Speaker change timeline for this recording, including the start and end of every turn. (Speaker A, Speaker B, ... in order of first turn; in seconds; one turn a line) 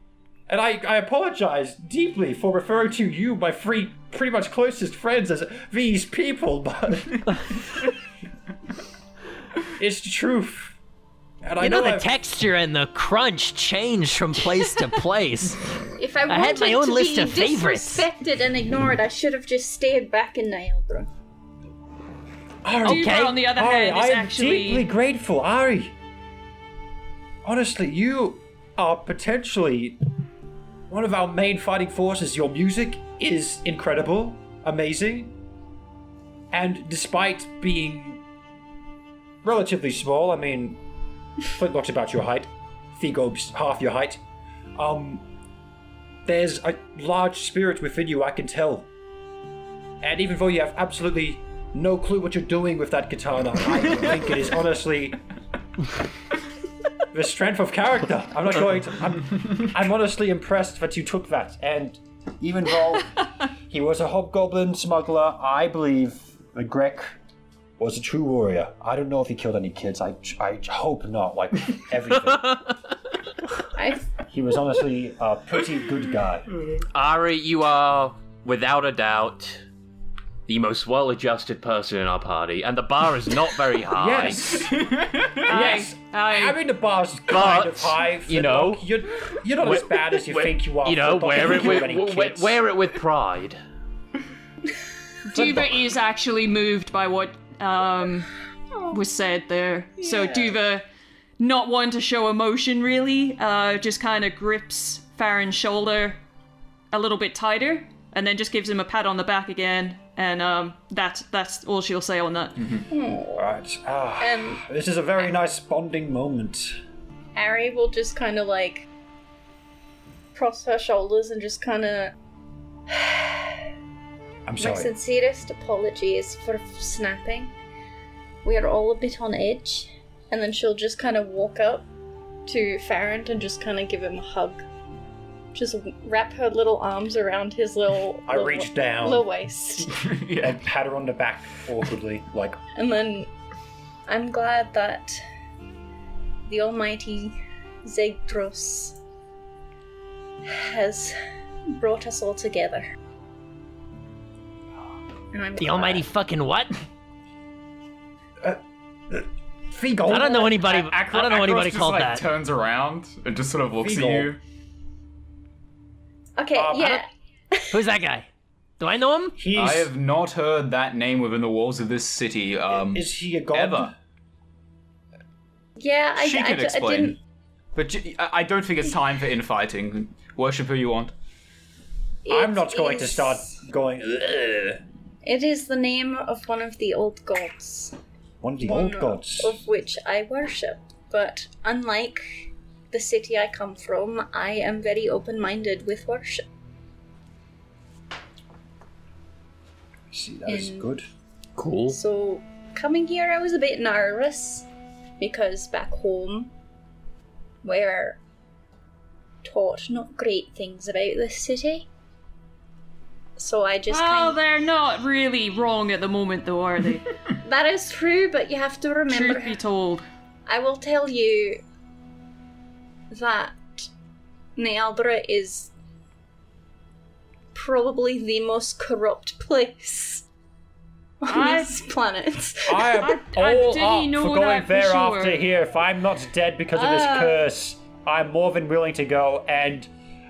Speaker A: 0.5-7.8
Speaker A: 9.8-10.8
Speaker A: 11.4-12.1
Speaker B: 11.6-15.6
Speaker C: 16.0-21.1
Speaker B: 16.3-18.1
Speaker A: 22.6-25.9
Speaker D: 22.8-24.9
Speaker B: 22.8-23.4
Speaker A: 27.4-30.0
Speaker A: 30.9-35.3
Speaker A: 36.5-38.2
Speaker A: 39.4-40.8
Speaker A: 41.5-44.2
Speaker A: 44.7-45.2
Speaker A: 46.2-48.9
Speaker A: 50.0-55.2
Speaker A: 57.1-67.2
Speaker A: 67.8-72.6
Speaker C: 73.7-74.1
Speaker A: 74.3-76.6
Speaker E: 76.9-79.6
Speaker E: 80.5-84.5
Speaker A: 83.9-84.8
Speaker F: 84.5-85.5
Speaker D: 85.5-86.6
Speaker A: 85.5-92.6
Speaker E: 87.3-88.8
Speaker E: 89.6-93.6
Speaker D: 95.3-98.3
Speaker A: 95.3-95.8
Speaker D: 98.9-100.8
Speaker C: 100.0-100.5
Speaker D: 101.4-106.2
Speaker D: 106.9-112.5
Speaker F: 112.5-112.9
Speaker C: 112.9-113.4
Speaker A: 113.3-116.8
Speaker C: 114.2-114.6
Speaker C: 117.3-118.8
Speaker C: 120.3-122.1
Speaker C: 122.9-123.6
Speaker A: 124.5-124.9
Speaker C: 124.6-127.5
Speaker C: 128.4-131.9
Speaker C: 132.4-134.6
Speaker C: 135.5-139.9
Speaker A: 138.2-139.3
Speaker F: 139.8-140.6
Speaker A: 140.4-142.6
Speaker C: 142.8-143.3
Speaker C: 144.1-145.2
Speaker C: 146.4-149.0
Speaker C: 150.4-151.2
Speaker C: 151.7-152.9
Speaker C: 155.3-156.1
Speaker B: 155.6-156.7
Speaker A: 158.4-160.6
Speaker B: 160.1-162.3
Speaker F: 160.6-164.4
Speaker A: 163.8-164.3
Speaker C: 166.4-167.8
Speaker A: 166.5-167.0
Speaker B: 167.7-168.3
Speaker B: 168.8-169.4
Speaker A: 169.4-169.9
Speaker F: 169.5-173.9
Speaker A: 172.7-173.9
Speaker C: 175.8-177.2
Speaker F: 176.2-177.2
Speaker F: 177.7-181.1
Speaker C: 182.2-183.4
Speaker A: 182.3-184.8
Speaker C: 185.2-187.9
Speaker A: 188.4-189.7
Speaker C: 188.6-196.4
Speaker A: 200.1-201.1
Speaker C: 200.5-200.8
Speaker E: 201.6-202.0
Speaker C: 201.9-204.7
Speaker C: 205.2-206.5
Speaker C: 207.6-208.2
Speaker C: 209.4-211.9
Speaker C: 213.4-214.4
Speaker D: 213.9-217.1
Speaker C: 217.4-219.6
Speaker D: 219.1-220.1
Speaker C: 220.5-221.6
Speaker C: 223.1-223.9
Speaker C: 224.6-225.7
Speaker C: 227.5-230.2
Speaker C: 231.2-232.9
Speaker D: 231.3-231.8
Speaker A: 232.7-239.9
Speaker D: 233.0-235.4
Speaker C: 236.7-237.4